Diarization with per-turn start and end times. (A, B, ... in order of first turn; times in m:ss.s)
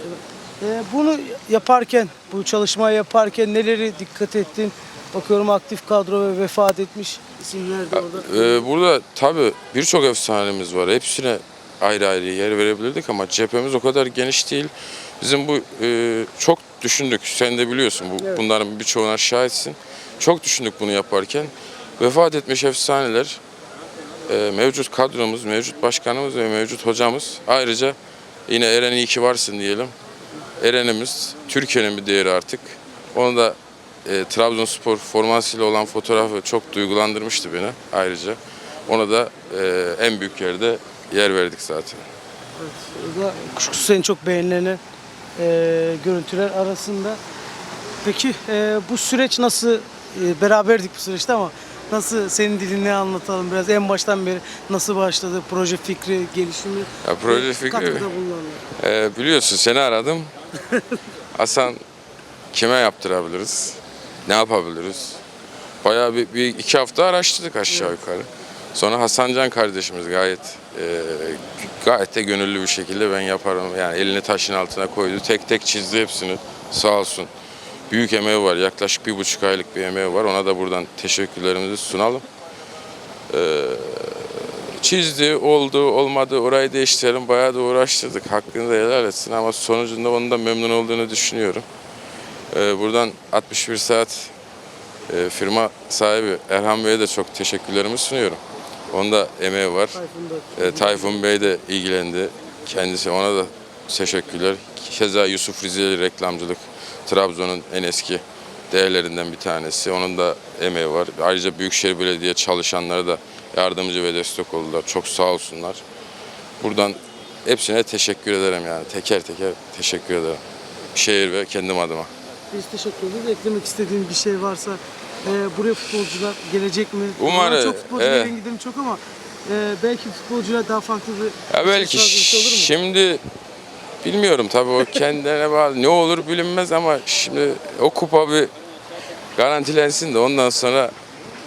0:00.6-0:08.7 A
0:07.9-0:23.4 B
0:24.3-0:28.0 B
0:28.5-0:29.9 B
0:30.6-0:42.0 B
0:42.6-0:44.8 A
0:45.4-0:47.2 A
0:48.0-0:58.6 A
0:57.0-0:58.1 B
0:58.8-1:00.3 B
1:01.4-1:01.8 B
1:02.5-1:05.2 B
1:05.8-1:17.3 B
1:17.9-1:22.2 B
1:23.3-1:31.6 B
1:32.5-1:34.3 B
1:35.1-1:38.4 B
1:38.9-1:40.0 B
1:39.9-1:41.4 A
1:40.6-1:55.8 B
1:56.6-2:00.4 B
2:00.9-2:02.1 B
2:02.5-2:12.7 A
2:07.2-2:08.4 B
2:11.5-2:13.2 B
2:14.0-2:18.5 B
2:19.4-2:20.9 B